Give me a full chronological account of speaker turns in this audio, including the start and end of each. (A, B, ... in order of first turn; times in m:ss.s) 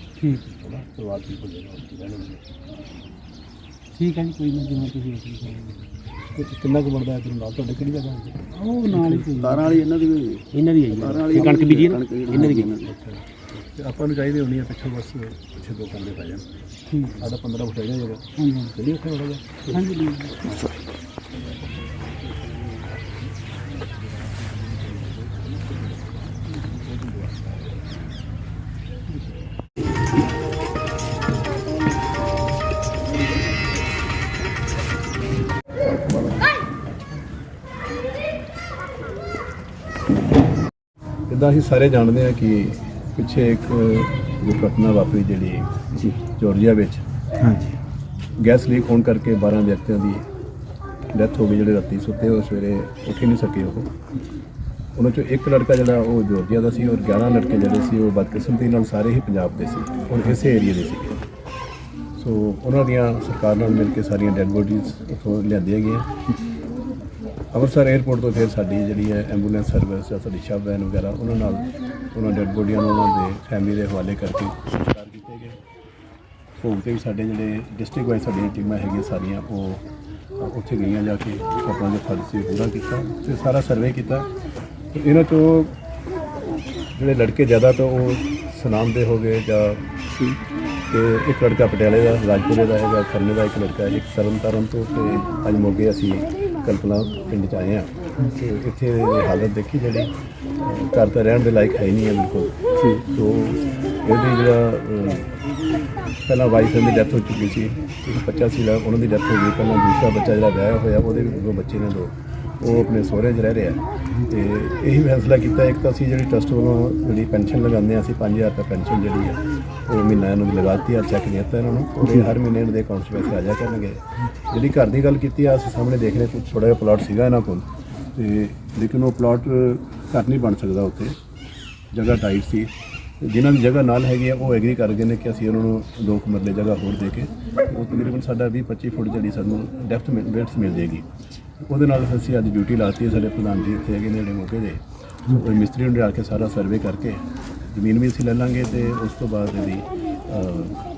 0:00.3-0:02.4 A
0:04.0-0:05.9 B
0:06.4-0:09.2 A
0:08.5-0:09.8 B
0:09.3-0:12.9 C
0:10.5-0:12.8 B
0:12.5-0:16.5 A
0:17.1-0:19.6 A
0:18.4-0:18.7 B
0:19.7-0:20.4 B
0:24.2-0:25.8 A
0:26.6-0:27.5 A
0:41.3-0:47.0 A
0:47.4-0:47.8 B
0:48.4-0:50.2 A
0:51.1-0:53.9 A
0:54.9-1:01.2 A
1:02.2-1:06.1 A
1:07.5-1:15.6 A
1:16.6-1:19.8 A
1:20.4-1:24.3 A
1:24.9-1:25.7 A
1:26.9-1:29.9 A
1:30.9-1:45.3 A
1:46.2-2:11.2 A
2:11.9-2:21.1 A
2:21.6-2:30.8 A